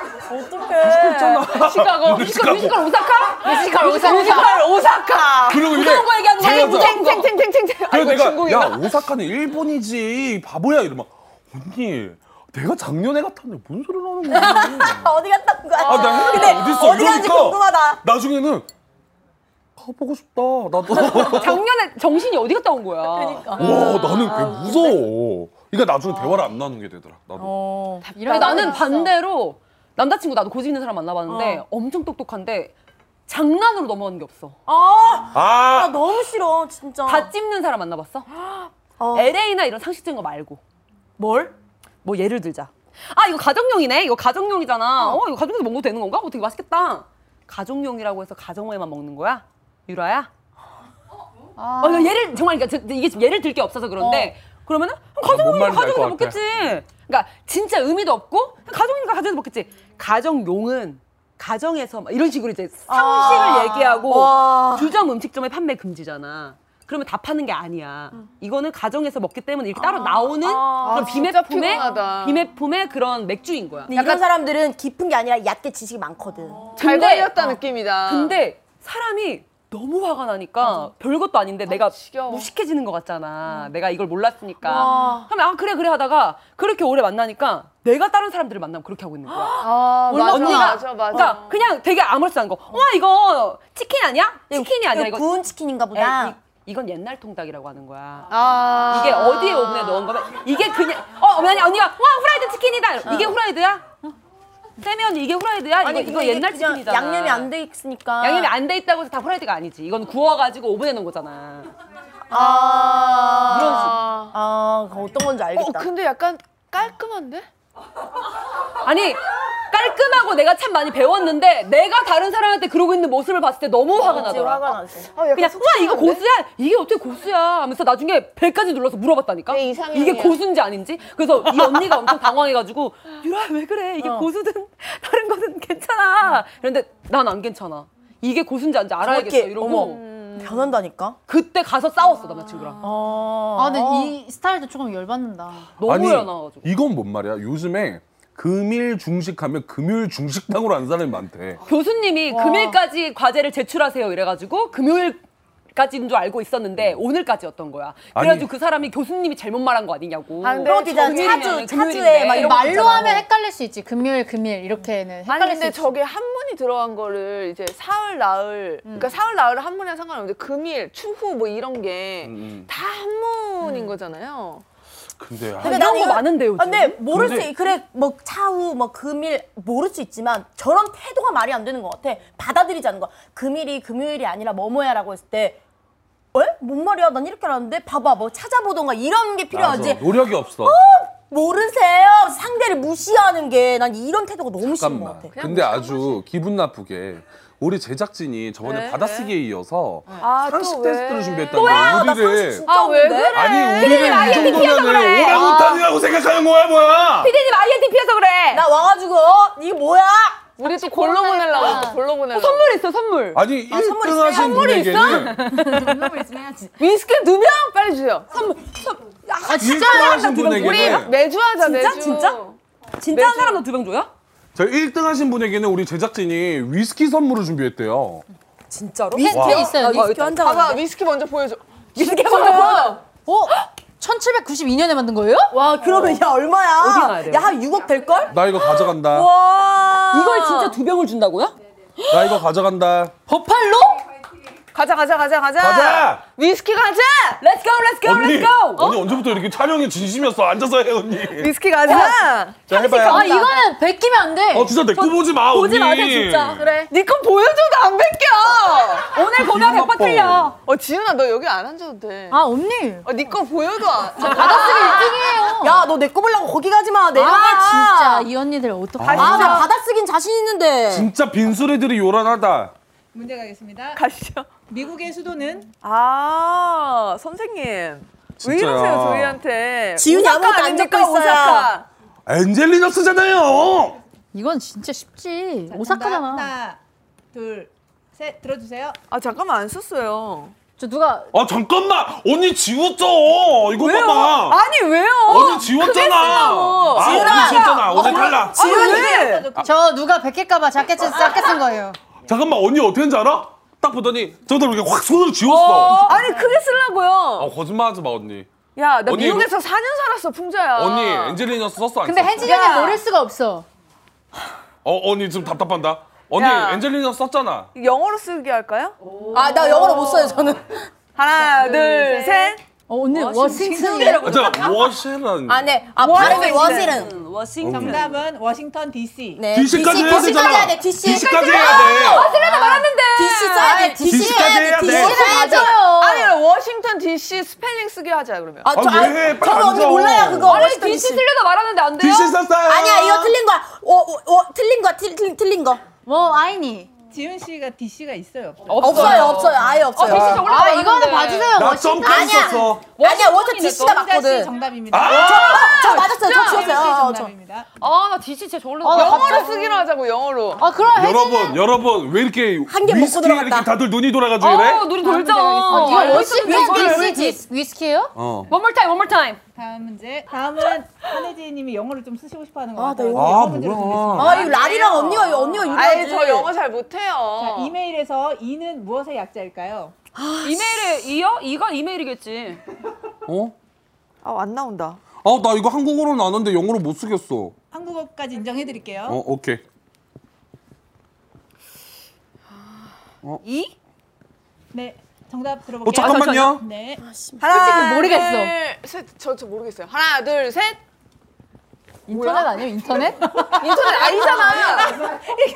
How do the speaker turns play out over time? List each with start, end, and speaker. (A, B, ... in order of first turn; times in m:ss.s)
0:00.3-0:01.2 A
0:00.5-0:01.8 B
0:00.7-0:03.0 C
0:01.6-0:04.6 D
0:03.4-0:04.6 E
0:03.6-0:05.8 B
0:05.5-0:07.0 C
0:05.6-0:07.3 D
0:06.4-0:08.9 B
0:07.9-0:15.1 C
0:14.3-0:18.0 A
0:15.8-0:16.6 B
0:15.8-0:18.7 C
0:19.8-0:21.6 C
0:21.0-0:23.6 D
0:23.1-0:24.9 A
0:23.6-0:27.6 C
0:27.4-0:28.1 A
0:28.0-0:28.8 B
0:28.1-0:29.1 E
0:28.2-0:32.7 D
0:31.3-0:31.6 A
0:33.3-0:34.6 D
0:34.7-0:37.3 A
0:35.3-0:36.0 C
0:37.0-0:38.3 D
0:39.0-0:39.3 A
0:39.1-0:40.6 D
0:41.2-0:41.5 A
0:42.0-0:50.3 D
0:51.7-1:14.2 D
0:51.8-0:52.1 A
0:54.0-0:54.3 A
0:55.2-0:56.4 C
1:02.9-1:04.9 A
1:09.8-1:10.2 A
1:10.4-1:12.4 B
1:10.8-1:11.2 A
1:13.9-1:16.6 A
1:16.7-1:18.4 B
1:16.8-1:35.3 D
1:21.7-1:22.5 B
1:24.6-1:25.3 B
1:24.7-1:25.2 A
1:29.3-1:31.6 B
1:29.7-1:31.3 A
1:34.5-1:36.4 A
1:35.9-1:38.3 D
1:38.3-1:40.0 B
1:38.9-1:43.8 D
1:43.0-1:43.4 A
1:44.8-1:47.5 D
1:45.8-1:48.5 A
1:48.2-1:51.7 D
1:52.3-1:55.9 A
1:52.3-1:54.3 B
1:53.4-1:54.0 D
1:55.5-1:57.5 B
1:58.8-2:04.6 D
2:04.0-2:05.1 A
2:04.1-2:04.4 B
2:05.1-2:06.2 B
2:05.3-2:20.0 D
2:09.5-2:10.4 B
2:14.0-2:14.3 A
2:19.0-2:21.2 A
2:19.6-2:20.7 B
2:21.3-2:22.8 D
2:22.8-2:24.1 A
2:23.6-2:25.8 E
2:25.8-2:26.6 D
2:25.8-2:31.6 C
2:31.6-2:43.2 D
2:32.3-2:32.8 A
2:38.1-2:38.5 C
2:40.4-2:41.6 B
2:40.6-2:43.2 A
2:42.3-2:45.9 E
2:45.2-2:54.6 B
2:52.2-2:52.7 C
2:55.2-2:56.1 C
2:55.6-2:57.0 D
2:55.6-3:05.6 A
2:57.1-2:57.5 C
3:06.3-3:15.3 A
3:09.5-3:10.8 C
3:14.6-3:22.6 C
3:15.3-3:16.2 B
3:18.6-3:19.3 B
3:20.2-3:22.0 B
3:21.5-3:25.8 D
3:21.6-3:23.4 A
3:22.6-3:25.2 B
3:23.3-3:27.3 C
3:25.3-3:25.8 E
3:27.2-3:28.6 D
3:28.5-3:30.4 A
3:30.6-3:32.8 B
3:30.8-3:32.0 E
3:31.6-3:33.4 D
3:33.3-3:35.4 C
3:33.7-3:35.0 A
3:34.3-3:36.1 D
3:35.6-3:36.7 A
3:36.8-3:38.3 B
3:38.3-3:42.4 D
3:39.4-3:40.4 E
3:39.5-3:41.1 C
3:40.5-3:42.6 B
3:43.0-3:44.1 D
3:43.1-3:43.6 B
3:44.5-3:48.2 C
3:48.7-3:50.2 D
3:49.1-3:50.8 A
3:49.2-3:50.2 E
3:49.3-3:49.7 C
3:50.2-3:53.0 B
3:52.0-3:53.0 D
3:52.3-3:52.6 E
3:53.2-3:55.5 E
3:55.5-3:58.4 A
3:56.8-3:57.5 D
3:58.3-3:59.3 C
3:58.7-3:59.2 D
3:59.2-4:00.5 A
4:00.0-4:02.4 D
4:00.2-4:00.7 B
4:02.1-4:03.2 C
4:03.3-4:04.0 E
4:04.7-4:07.4 B
4:05.6-4:06.2 C
4:07.4-4:09.0 D
4:08.0-4:11.5 C
4:11.4-4:13.3 B
4:11.8-4:12.2 E
4:12.7-4:13.4 C
4:12.8-4:13.5 D
4:13.0-4:14.8 E
4:14.5-4:16.7 C
4:14.9-4:16.7 D
4:16.9-4:19.1 B
4:19.1-4:20.5 D
4:19.4-4:20.5 C
4:20.6-4:22.4 B
4:22.3-4:23.1 E
4:23.0-4:25.2 B
4:24.2-4:25.8 E
4:24.5-4:28.3 A
4:27.1-4:29.7 E
4:29.0-4:29.6 C
4:29.1-4:31.1 A
4:29.1-4:29.6 B
4:30.9-4:32.7 C
4:33.1-4:34.0 F
4:33.9-4:34.5 B
4:34.7-4:35.7 F
4:35.8-4:41.9 B
4:38.4-4:39.4 C
4:40.0-4:41.7 A
4:42.2-4:44.0 C
4:44.3-4:46.5 E
4:45.7-4:46.8 F
4:47.3-4:49.0 F
4:49.1-4:50.5 B
4:50.8-4:51.3 E
4:51.3-4:54.6 C
4:53.8-4:59.4 B
4:55.2-4:58.8 C
4:56.9-4:58.0 A
4:57.8-4:59.7 F
4:58.0-4:59.5 D
4:59.6-5:02.0 E
5:02.2-5:06.1 C
5:05.5-5:06.2 D
5:05.5-5:07.5 B
5:07.4-5:08.5 C
5:08.8-5:11.4 B
5:09.0-5:09.5 C
5:10.8-5:12.7 C
5:12.0-5:13.7 E
5:12.4-5:13.0 A
5:12.5-5:12.9 B
5:14.8-5:17.7 C
5:16.3-5:16.8 B
5:17.7-5:18.9 B
5:19.3-5:20.9 A
5:21.2-5:22.6 B
5:21.6-5:22.3 A
5:22.9-5:24.7 E
5:23.1-5:24.8 B
5:23.7-5:24.2 A
5:24.2-5:26.5 C
5:25.5-5:27.1 A
5:26.0-5:27.0 B
5:26.2-5:28.1 D
5:27.6-5:28.1 C
5:27.7-5:29.5 F
5:29.4-5:32.3 A
5:29.5-5:32.2 C
5:29.7-5:32.8 E
5:31.5-5:33.9 D
5:33.1-5:36.3 A
5:33.6-5:35.7 E
5:34.0-5:35.3 C
5:35.2-5:38.7 B
5:38.6-5:41.2 A
5:38.7-5:40.7 C
5:40.4-5:42.4 D
5:42.0-5:43.3 C
5:42.6-5:45.8 A
5:46.0-5:46.9 E
5:47.1-5:49.5 F
5:48.6-5:51.5 D
5:48.8-5:50.5 A
5:50.1-5:52.6 E
5:51.5-5:52.9 C
5:52.0-5:57.3 A
5:52.9-5:54.0 D
5:53.9-5:57.7 F
5:54.9-5:55.8 C
5:57.8-5:59.5 D
5:58.8-5:59.8 E
5:58.9-6:00.6 B
6:00.6-6:01.6 E
6:00.9-6:04.9 C
6:02.7-6:03.7 A
6:04.4-6:07.1 D
6:04.9-6:06.4 F
6:05.7-6:08.1 E
6:05.9-6:07.4 A
6:08.1-6:08.5 C
6:08.5-6:09.4 D
6:09.5-6:14.4 F
6:12.8-6:13.4 A
6:13.1-6:14.4 C
6:14.1-6:16.5 A
6:14.2-6:17.7 B
6:17.4-6:19.9 F
6:20.2-6:20.7 A
6:20.4-6:22.6 D
6:23.3-6:23.5 C
6:24.2-6:25.0 B
6:25.2-6:27.5 C
6:27.7-6:29.2 F
6:29.0-6:29.6 C
6:33.4-6:33.7 D
6:34.7-6:37.0 F
6:35.8-6:36.6 C
6:36.0-6:36.4 D
6:37.0-6:37.7 A
6:37.4-6:40.8 B
6:37.4-6:38.5 E
6:42.1-6:44.0 E
6:42.1-6:42.5 B
6:43.5-6:45.0 B